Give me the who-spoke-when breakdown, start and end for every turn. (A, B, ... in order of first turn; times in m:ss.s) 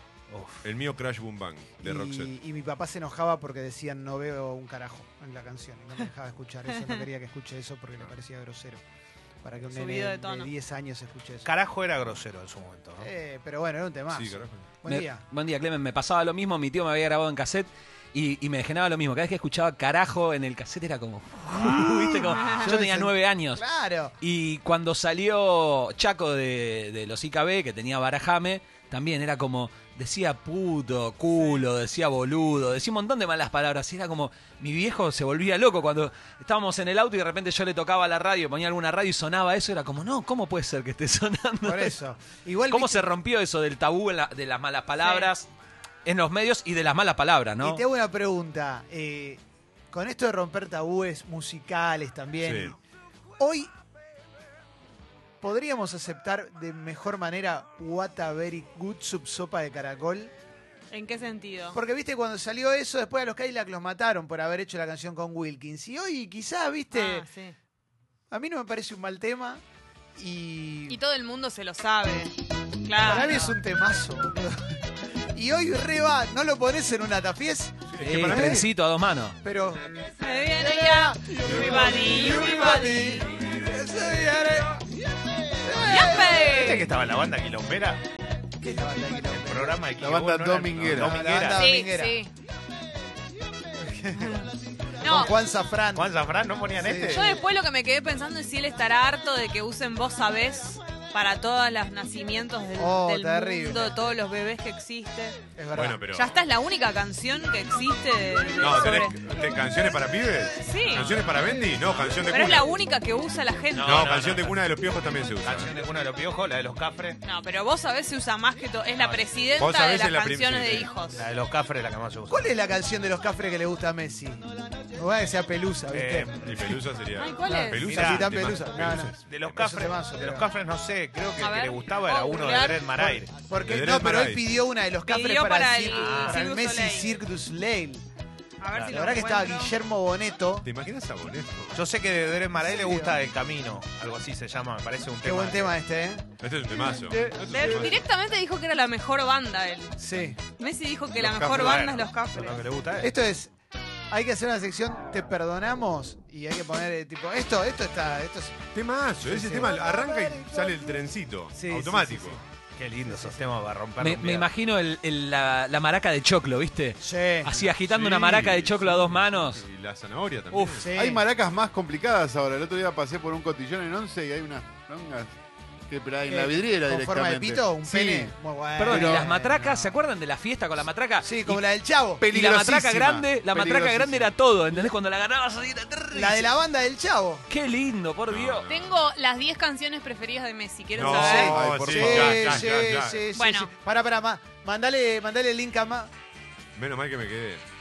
0:00.3-0:00.6 A
0:00.6-0:02.3 B
0:01.8-0:08.8 C
0:09.4-0:11.5 C
0:09.7-0:10.5 D
0:11.4-0:13.1 A
0:13.0-0:15.2 C
0:14.1-0:14.7 B
0:14.8-0:23.6 E
0:21.5-0:24.1 C
0:22.4-0:22.7 D
0:24.2-0:42.0 E
0:41.6-0:43.1 C
0:42.7-0:45.5 E
0:45.0-0:45.3 D
0:46.0-0:47.8 E
0:47.6-0:49.4 C
0:49.9-0:52.8 C
0:52.4-0:52.7 B
0:53.4-0:53.7 C
0:55.4-1:00.3 C
1:00.9-1:01.8 D
1:01.7-1:07.3 C
1:06.9-1:07.5 D
1:08.3-1:09.6 C
1:10.2-1:11.0 C
1:10.9-1:12.3 D
1:12.8-1:13.6 D
1:13.0-1:14.8 C
1:15.3-1:18.7 C
1:17.9-1:18.5 B
1:18.0-1:19.4 E
1:19.4-1:19.9 C
1:20.2-1:23.3 D
1:20.6-1:24.8 C
1:25.6-1:26.6 C
1:25.8-1:26.8 D
1:26.2-1:28.0 A
1:28.6-1:29.8 C
1:29.3-1:31.7 A
1:30.0-1:31.3 F
1:30.9-1:32.2 C
1:31.5-1:32.3 D
1:33.8-1:34.5 C
1:35.0-1:35.3 D
1:35.0-1:36.1 C
1:35.9-1:37.4 A
1:36.7-1:37.4 C
1:37.1-1:45.4 D
1:42.8-1:44.0 C
1:45.6-1:46.0 C
1:45.7-1:46.3 B
1:46.1-1:49.2 D
1:48.6-1:52.7 B
1:50.6-1:51.3 D
1:50.8-1:51.1 A
1:51.8-1:52.3 A
1:52.3-1:54.1 D
1:53.7-1:54.6 A
1:53.8-1:55.7 B
1:55.4-1:57.2 A
1:57.2-2:01.2 D
1:59.0-1:59.3 A
1:59.6-2:00.9 B
2:01.1-2:02.5 A
2:02.3-2:06.3 C
2:05.9-2:06.8 A
2:06.4-2:09.6 B
2:07.2-2:08.0 D
2:07.4-2:10.5 C
2:07.8-2:08.6 A
2:09.3-2:13.3 A
2:11.4-2:12.9 D
2:13.0-2:18.0 C
2:13.6-2:14.4 B
2:15.0-2:17.2 D
2:15.9-2:16.5 A
2:18.6-2:19.8 D
2:18.9-2:20.6 C
2:20.6-2:21.8 B
2:21.7-2:25.8 A
2:22.6-2:23.2 C
2:25.2-2:26.3 C
2:26.4-2:28.0 B
2:27.5-2:29.9 D
2:30.0-2:30.4 C
2:30.5-2:32.6 D
2:31.2-2:33.1 A
2:33.0-2:33.5 C
2:34.1-2:38.6 C
2:38.7-2:42.4 B
2:39.2-2:40.9 C
2:41.5-2:42.4 C
2:42.8-2:44.5 A
2:43.0-2:43.4 C
2:44.0-2:49.6 E
2:47.0-2:47.7 C
2:47.8-2:50.9 B
2:50.5-2:50.8 E
2:50.8-2:51.2 C
2:50.9-2:55.3 F
2:55.9-2:58.3 F
2:56.3-2:59.9 C
2:58.8-3:01.6 E
2:58.9-2:59.3 F
3:01.2-3:02.2 C
3:02.2-3:04.3 F
3:02.2-3:06.5 E
3:06.1-3:07.4 C
3:07.5-3:08.7 E
3:08.3-3:08.9 B
3:08.7-3:11.6 D
3:10.9-3:13.2 B
3:11.0-3:16.1 C
3:11.4-3:12.1 F
3:13.3-3:13.7 D
3:16.8-3:17.6 B